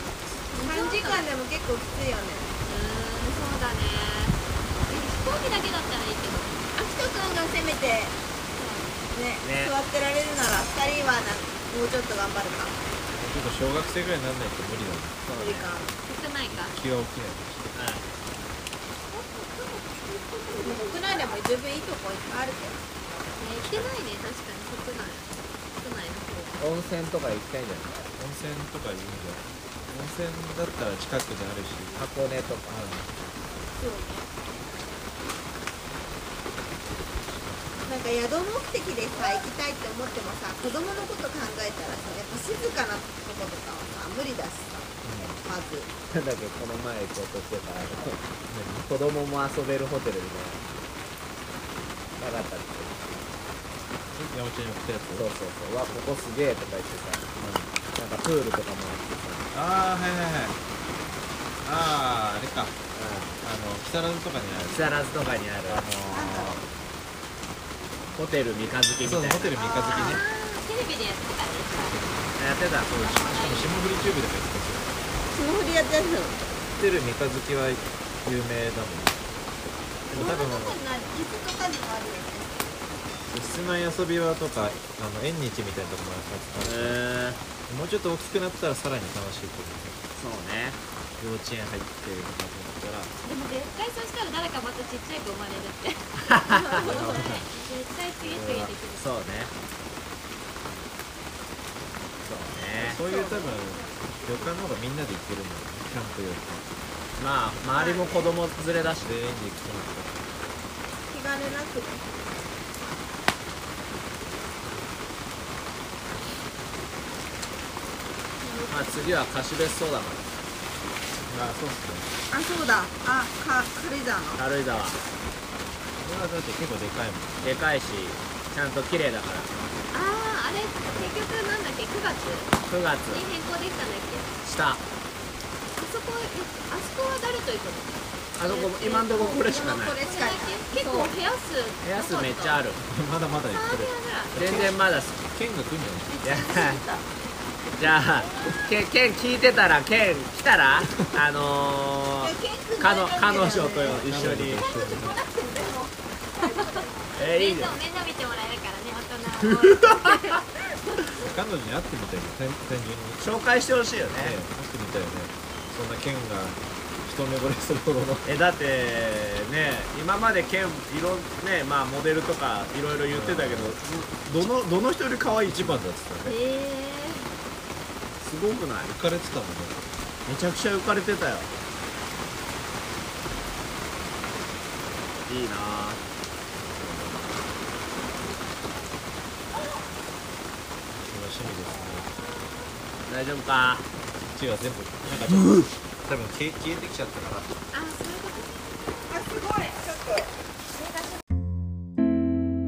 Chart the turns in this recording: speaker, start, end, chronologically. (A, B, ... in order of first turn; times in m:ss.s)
0:00.5-0:01.3 A
0:00.5-0:02.5 B
0:02.6-0:06.7 A
0:06.8-0:08.2 B
0:08.6-0:09.0 A
0:09.1-0:12.8 B
0:09.4-0:09.7 C
0:13.1-0:15.2 D
0:15.3-0:15.7 C
0:15.4-0:15.9 B
0:16.0-0:16.8 A
0:16.5-0:17.8 D
0:17.7-0:18.1 C
0:19.1-0:22.8 B
0:20.6-0:21.4 A
0:23.4-0:26.6 A
0:23.6-0:24.0 D
0:26.6-0:27.9 C
0:28.2-0:32.0 D
0:31.9-0:32.8 C
0:32.7-0:33.1 D
0:33.7-0:34.3 B
0:37.8-0:45.9 B
0:45.0-0:45.4 D
0:46.1-0:48.2 C
0:48.5-0:48.9 D
0:48.9-0:50.6 C
0:52.2-0:53.2 C
0:54.1-0:55.3 D
0:55.1-0:57.4 C
0:57.4-0:57.7 D
0:57.9-0:59.5 C
0:59.5-1:00.6 D
1:01.6-1:02.8 D
1:02.9-1:03.4 C
1:03.4-1:04.9 D
1:04.6-1:06.0 C
1:05.7-1:06.6 D
1:06.1-1:06.6 B
1:08.2-1:09.6 C
1:09.0-1:10.2 D
1:09.5-1:10.2 B
1:09.9-1:12.0 A
1:11.8-1:12.2 D
1:12.4-1:13.4 C
1:12.9-1:14.9 D
1:12.9-1:13.7 A
1:15.3-1:16.4 B
1:16.8-1:19.2 D
1:20.1-1:22.6 B
1:20.1-1:20.8 D
1:23.3-1:27.0 D
1:26.6-1:27.4 C
1:27.7-1:30.0 D
1:30.2-1:30.8 C
1:31.2-1:33.1 D
1:33.2-1:39.1 A
1:36.3-1:36.9 C
1:36.7-1:37.0 B
1:36.8-1:37.4 D
1:38.2-1:38.7 D
1:38.9-1:39.5 C
1:42.2-1:43.0 C
1:42.8-1:46.7 D
1:43.1-1:43.4 B
1:47.2-1:49.1 C
1:47.8-1:48.2 B
1:49.0-1:50.2 D
1:51.1-1:52.0 B
1:58.4-1:59.2 B
1:58.4-1:58.7 A
1:58.7-2:00.2 C
2:01.3-2:02.1 D
2:02.3-2:04.4 B
2:04.4-2:05.0 C
2:06.0-2:07.4 D
2:07.4-2:09.5 C
2:09.9-2:12.6 A
2:10.8-2:11.2 D
2:12.6-2:13.2 C
2:13.1-2:14.4 A
2:14.4-2:14.8 C
2:15.8-2:22.6 A
2:18.4-2:20.0 C
2:19.6-2:21.1 B
2:21.8-2:22.8 C
2:22.8-2:24.7 D
2:23.5-2:24.4 A
2:24.4-2:25.2 C
2:25.3-2:26.1 D
2:26.2-2:27.0 A
2:26.2-2:26.8 C
2:26.4-2:27.0 B
2:27.8-2:34.6 C
2:32.2-2:37.1 B
2:33.8-2:35.2 D
2:37.2-2:37.8 C
2:37.2-2:40.4 A
2:39.4-2:40.1 C
2:41.2-2:43.2 D
2:43.2-2:44.4 C
2:44.2-2:48.3 D
2:48.2-2:55.8 C
2:53.1-2:53.8 D
2:55.3-2:56.4 D
2:56.2-2:57.3 A
2:58.2-2:59.0 C
2:58.9-2:59.8 D
3:00.3-3:01.5 C
3:05.3-3:06.0 C
3:06.7-3:07.4 C
3:11.0-3:12.1 D
3:13.1-3:13.9 C
3:14.3-3:17.5 D
3:15.3-3:15.7 C
3:17.7-3:19.1 A
3:19.1-3:20.3 B
3:20.7-3:21.2 A